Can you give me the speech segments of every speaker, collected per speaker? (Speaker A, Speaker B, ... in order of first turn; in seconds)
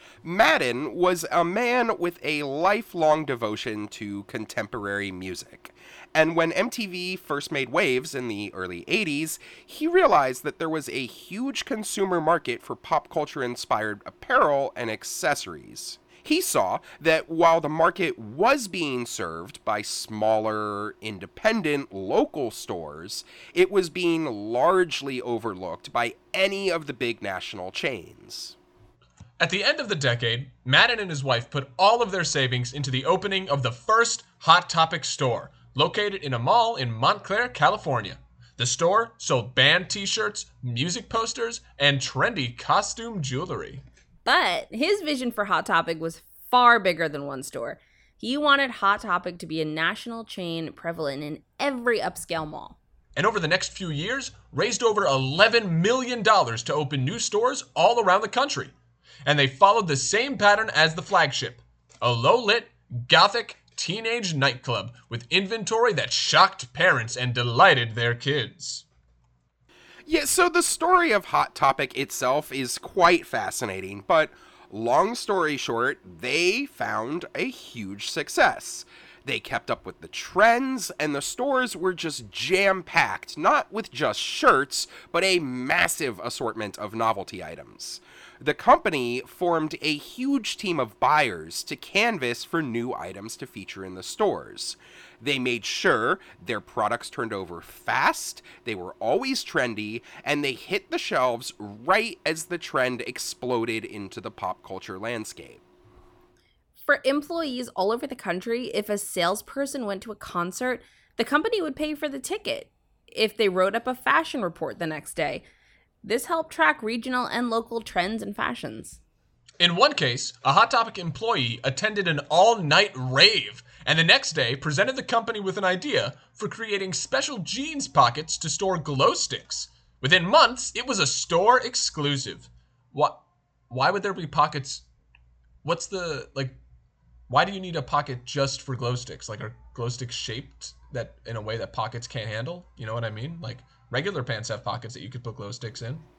Speaker A: 0.2-28.6, 70.1-105.6
Speaker B: 29.4-43.8, 53.1-58.7, 59.2-68.8, 119.6-134.8, 135.6-136.6, 137.3-146.0
Speaker C: 44.2-52.8, 106.8-115.4, 116.0-119.0